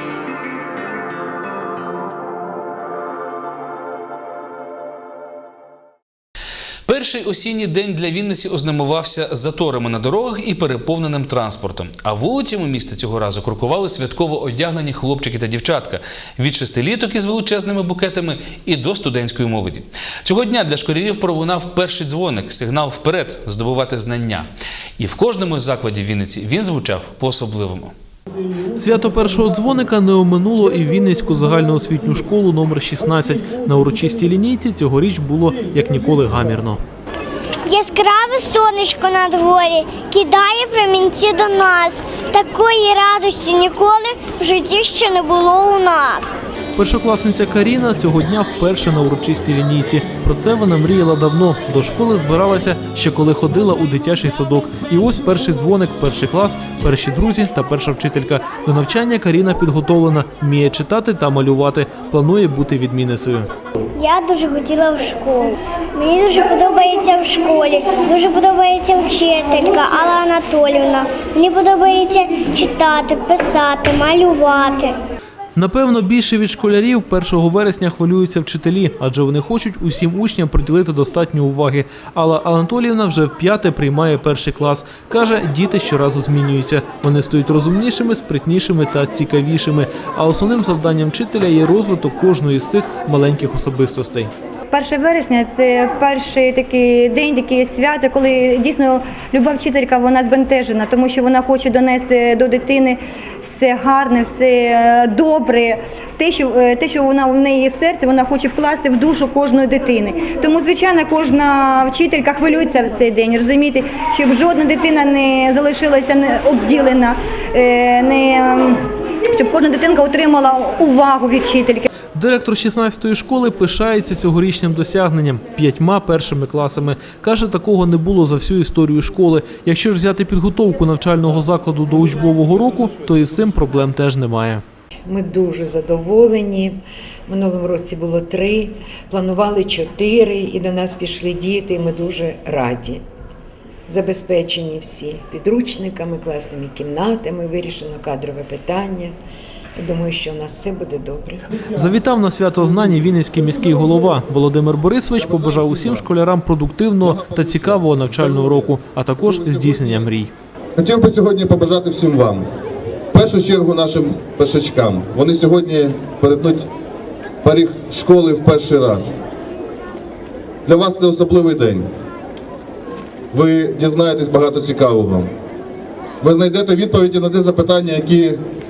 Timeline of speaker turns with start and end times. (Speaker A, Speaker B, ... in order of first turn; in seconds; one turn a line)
Speaker A: 6.9-24.5
Speaker A: 25.0-27.9
Speaker B: 28.7-36.8
Speaker C: 37.8-46.3
Speaker B: 46.7-63.5
Speaker C: 64.0-65.5
Speaker C: 66.1-74.9
Speaker B: 75.5-94.3
Speaker D: 94.7-118.8
Speaker D: 119.4-121.9
Speaker B: 122.1-134.6
Speaker E: 135.1-136.8
Speaker E: 137.3-143.0
Speaker E: 143.9-149.1
Speaker E: 149.8-151.5
Speaker B: 151.7-160.3
Speaker F: 160.8-162.4
Speaker F: 163.1-166.7
Speaker F: 167.4-169.1
Speaker F: 170.7-171.9
Speaker F: 173.3-175.3
Speaker F: 176.2-178.4